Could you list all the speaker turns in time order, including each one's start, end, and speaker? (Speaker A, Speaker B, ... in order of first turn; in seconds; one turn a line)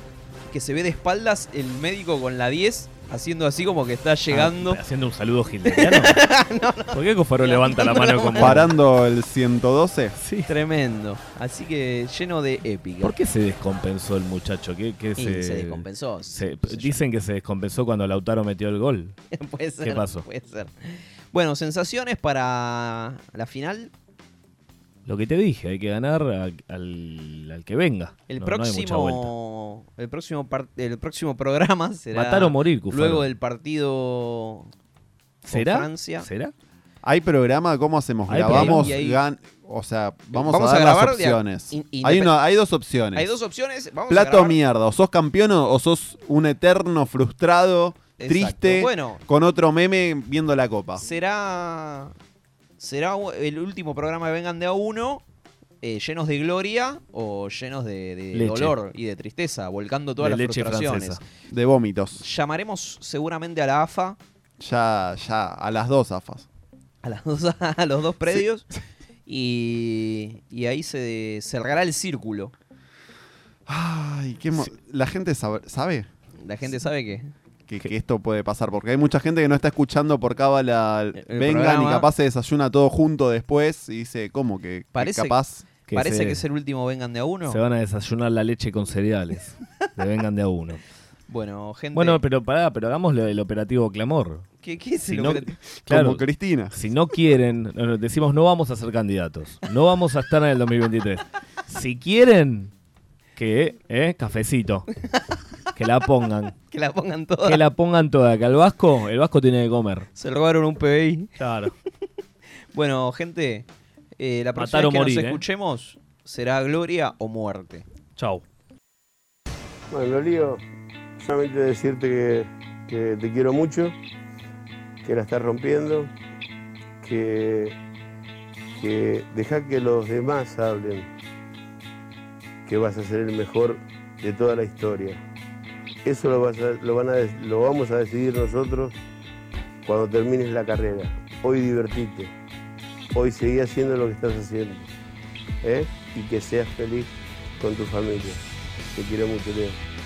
Speaker A: 0.5-4.8
Speaker B: 4.3-6.2
Speaker A: 5.7-8.6
Speaker B: 6.9-8.7
Speaker C: 8.4-10.2
Speaker B: 10.2-10.5
Speaker A: 10.4-13.2
Speaker B: 13.0-19.1
Speaker A: 15.2-17.0
Speaker A: 19.3-23.9
Speaker B: 19.8-20.2
Speaker B: 25.1-29.3
Speaker A: 28.3-34.7
Speaker B: 32.1-33.3
Speaker B: 35.5-36.5
Speaker A: 35.5-36.3
Speaker C: 37.0-43.3
Speaker B: 38.3-38.9
Speaker A: 38.4-39.2
Speaker A: 40.3-42.4
Speaker A: 43.1-44.6
Speaker C: 44.1-51.0
Speaker A: 48.2-49.2
Speaker A: 51.0-52.1
Speaker A: 52.8-55.2
Speaker A: 55.8-61.2
Speaker B: 58.3-58.8
Speaker B: 60.2-61.2
Speaker C: 61.5-62.2
Speaker A: 62.2-64.2
Speaker C: 64.6-66.5
Speaker A: 67.0-68.7
Speaker A: 69.2-72.5
Speaker C: 73.7-76.1
Speaker A: 76.4-77.3
Speaker C: 77.7-85.7
Speaker A: 81.2-82.1
Speaker A: 84.9-85.4
Speaker B: 85.9-86.4
Speaker A: 85.9-87.6
Speaker B: 87.5-90.8
Speaker A: 91.3-92.2
Speaker B: 91.9-94.5
Speaker A: 94.6-95.6
Speaker B: 95.1-102.7
Speaker C: 95.9-96.7
Speaker B: 103.3-104.8
Speaker B: 105.7-106.5
Speaker A: 106.7-107.6
Speaker B: 107.4-110.1
Speaker A: 110.1-111.4
Speaker B: 111.4-111.7
Speaker A: 112.7-113.7
Speaker A: 114.2-117.8
Speaker B: 114.6-115.4
Speaker B: 118.2-118.4
Speaker D: 119.9-120.6
Speaker D: 121.2-124.0
Speaker D: 125.0-126.1
Speaker D: 127.0-127.8
Speaker D: 128.8-131.1
Speaker D: 132.7-135.2
Speaker D: 136.0-138.9
Speaker D: 139.8-142.3
Speaker D: 143.1-144.9
Speaker D: 145.6-148.4
Speaker D: 148.9-149.8